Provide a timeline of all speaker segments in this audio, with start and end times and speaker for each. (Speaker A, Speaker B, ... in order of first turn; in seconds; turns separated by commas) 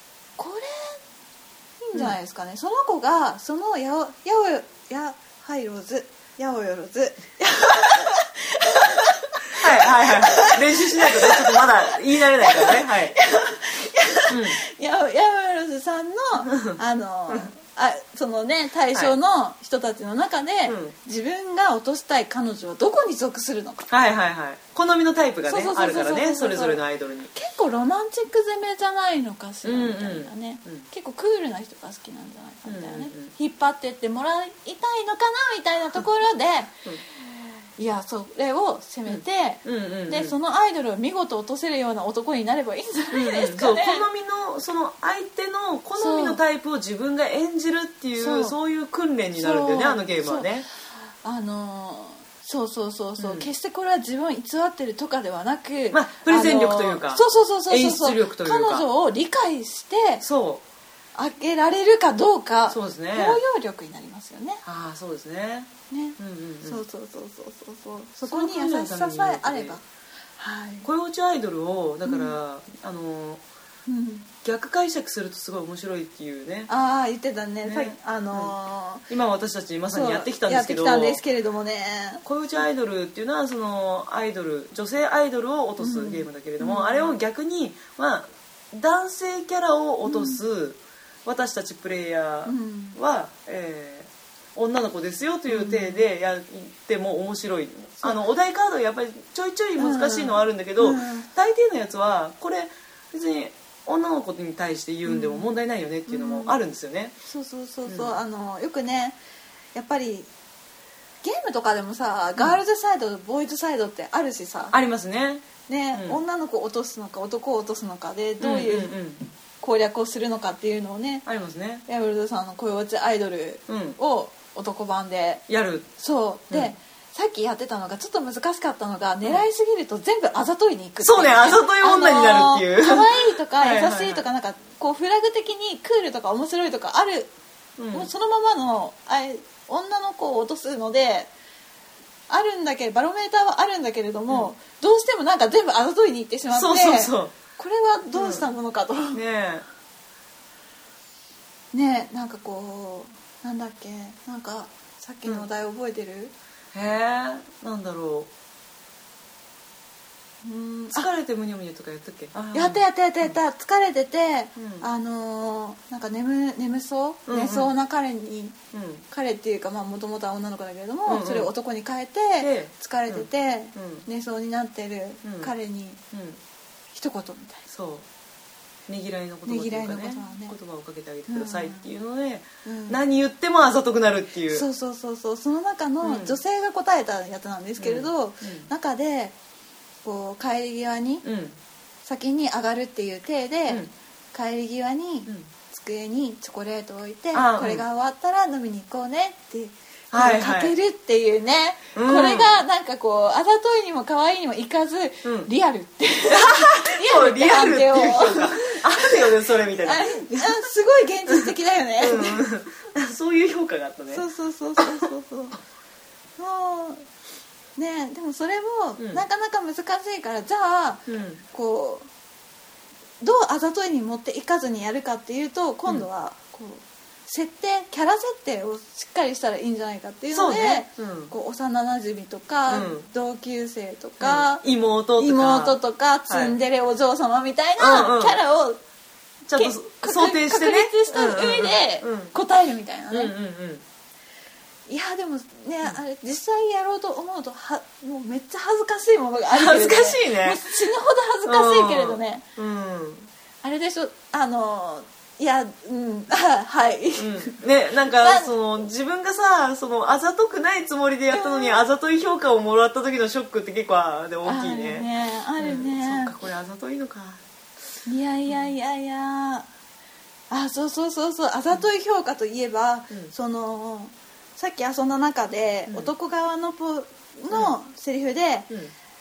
Speaker A: 0.4-1.0, Speaker A: 1.8-23.9, Speaker B: 9.6-13.2, Speaker B: 14.3-14.6, Speaker B: 16.5-16.8, Speaker B: 20.7-20.9, Speaker B: 23.9-27.3, Speaker A: 25.4-26.8, Speaker A: 27.3-37.2, Speaker B: 29.6-30.9, Speaker B: 32.6-33.3, Speaker A: 37.8-44.0, Speaker B: 39.1-40.4, Speaker B: 43.1-50.7, Speaker A: 46.0-46.4, Speaker A: 48.2-48.6, Speaker A: 49.4-50.5, Speaker A: 51.2-60.2, Speaker B: 53.2-53.5, Speaker B: 55.9-58.9, Speaker B: 60.2-60.6, Speaker A: 61.1-64.6, Speaker B: 62.7-63.4, Speaker B: 64.7-66.8, Speaker A: 65.9-69.8, Speaker B: 68.2-69.8, Speaker A: 70.4-70.9, Speaker B: 70.8-73.4, Speaker A: 72.0-72.3, Speaker A: 73.9-74.3, Speaker B: 74.4-76.7, Speaker A: 76.7-79.0, Speaker B: 77.6-78.5, Speaker B: 79.1-81.2, Speaker A: 79.9-82.2, Speaker B: 82.3-107.1, Speaker A: 85.8-87.1, Speaker A: 90.0-90.4, Speaker A: 92.5-93.0, Speaker A: 95.5-96.0, Speaker A: 99.8-101.3, Speaker A: 105.1-105.5, Speaker A: 106.1-106.6, Speaker A: 107.3-109.2, Speaker B: 107.9-108.1, Speaker A: 109.8-110.3, Speaker A: 111.2-114.7, Speaker B: 114.7-116.2, Speaker A: 115.7-119.0, Speaker B: 118.4-119.2, Speaker A: 119.6-121.3, Speaker B: 121.3-121.8, Speaker A: 121.9-125.4, Speaker B: 123.7-124.0, Speaker B: 125.5-125.9, Speaker A: 126.0-137.3, Speaker B: 131.0-134.2, Speaker B: 137.8-138.1, Speaker A: 137.9-141.3, Speaker A: 142.3-149.2, Speaker B: 146.5-147.4, Speaker B: 148.1-148.5, Speaker B: 149.1-149.7, Speaker A: 151.7-156.3, Speaker B: 156.7-158.3, Speaker A: 160.4-161.1, Speaker B: 160.9-163.3, Speaker A: 162.5-168.6, Speaker B: 164.6-164.8, Speaker B: 167.3-167.7, Speaker B: 168.7-169.0, Speaker A: 169.1-176.0, Speaker B: 171.1-171.5, Speaker B: 172.4-174.1, Speaker B: 175.2-175.5, Speaker B: 176.1-176.4, Speaker A: 176.9-177.6, Speaker B: 177.7-178.0, Speaker B: 178.9-184.7, Speaker A: 179.4-180.6, Speaker A: 181.3-181.9, Speaker A: 182.6-183.0, Speaker A: 184.5-189.3, Speaker B: 186.0-186.4, Speaker B: 187.8-188.7, Speaker A: 190.0-191.2, Speaker B: 191.2-191.6, Speaker A: 192.0-212.4, Speaker B: 197.3-197.8, Speaker B: 200.1-200.8, Speaker B: 201.9-202.5, Speaker B: 205.2-205.5, Speaker B: 206.3-210.6, Speaker B: 212.0-214.2, Speaker A: 214.1-215.6, Speaker A: 216.4-217.1, Speaker A: 217.8-222.1, Speaker B: 219.0-219.2, Speaker B: 221.1-221.4, Speaker A: 223.2-234.6, Speaker B: 230.3-231.3, Speaker B: 232.7-233.1, Speaker B: 234.2-235.8, Speaker A: 235.2-238.8, Speaker B: 236.3-236.6, Speaker B: 237.8-238.4, Speaker B: 239.5-242.3, Speaker A: 239.6-243.3, Speaker B: 243.1-243.8, Speaker A: 244.9-252.4, Speaker B: 249.5-250.6, Speaker B: 251.4-253.3, Speaker A: 253.6-258.5, Speaker B: 257.2-265.1, Speaker A: 261.3-261.8, Speaker A: 264.4-266.3, Speaker B: 265.6-267.4, Speaker A: 268.1-269.7, Speaker A: 270.5-278.7